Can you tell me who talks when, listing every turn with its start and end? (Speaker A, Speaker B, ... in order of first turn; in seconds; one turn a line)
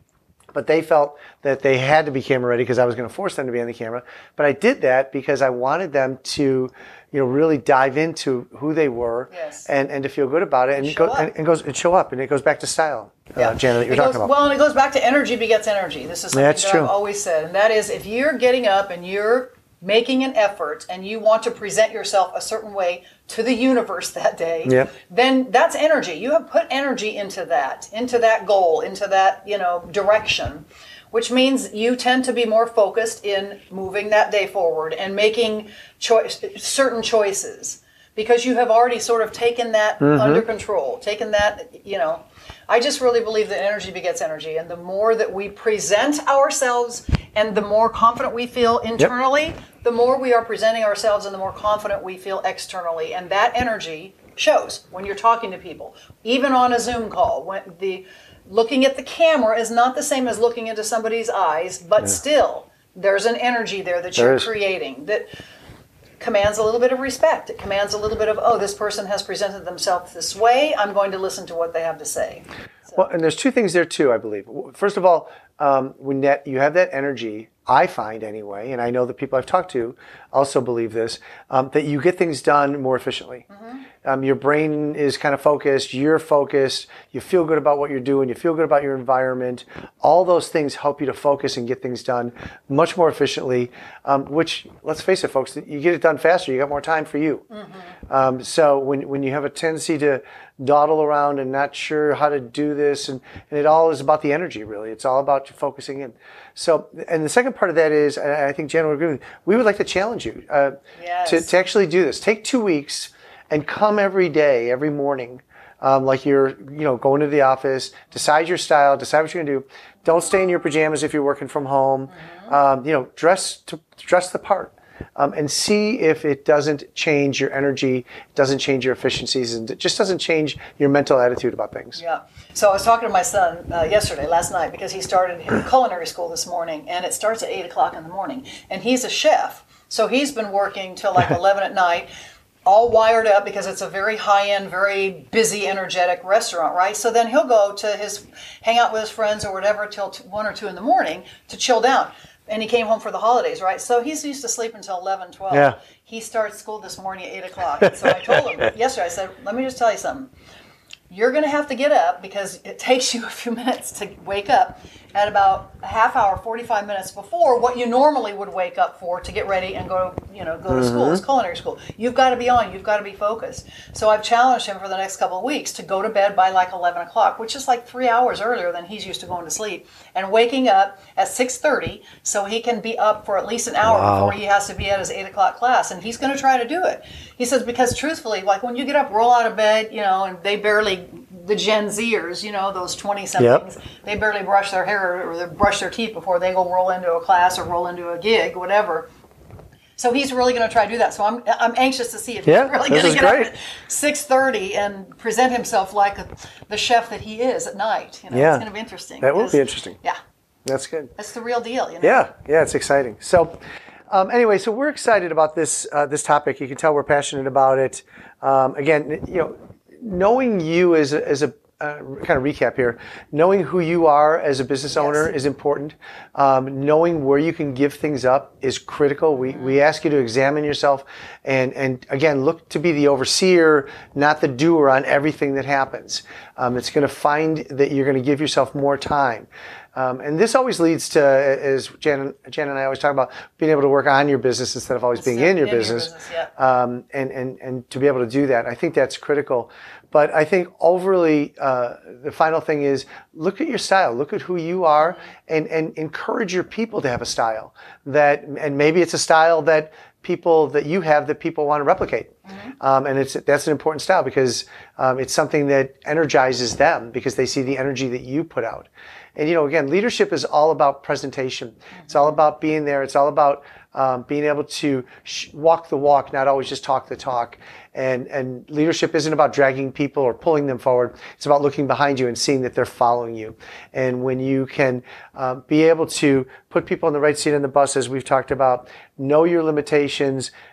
Speaker A: 0.5-14.3
Speaker B: 9.3-9.7
Speaker B: 10.8-11.3
Speaker B: 13.4-65.2
Speaker A: 16.3-16.9
Speaker A: 24.6-24.9
Speaker A: 40.0-40.4
Speaker A: 64.2-64.5
Speaker B: 66.2-73.0
Speaker A: 72.9-83.5
Speaker B: 83.5-83.8
Speaker A: 84.0-97.4
Speaker B: 97.5-97.8
Speaker A: 98.1-132.0
Speaker B: 111.0-111.5
Speaker B: 132.0-142.1
Speaker B: 142.6-160.3
Speaker A: 155.5-155.8
Speaker B: 161.1-199.1
Speaker A: 170.7-171.2
Speaker A: 183.8-184.3
Speaker A: 193.4-193.6
Speaker B: 200.0-210.2
Speaker A: 202.4-203.5
Speaker A: 208.3-208.6
Speaker A: 209.2-210.0
Speaker A: 210.6-211.1
Speaker B: 211.2-212.2
Speaker A: 212.0-213.6
Speaker A: 214.1-290.5
Speaker B: 224.9-225.3
Speaker B: 245.1-246.5
Speaker B: 262.5-262.7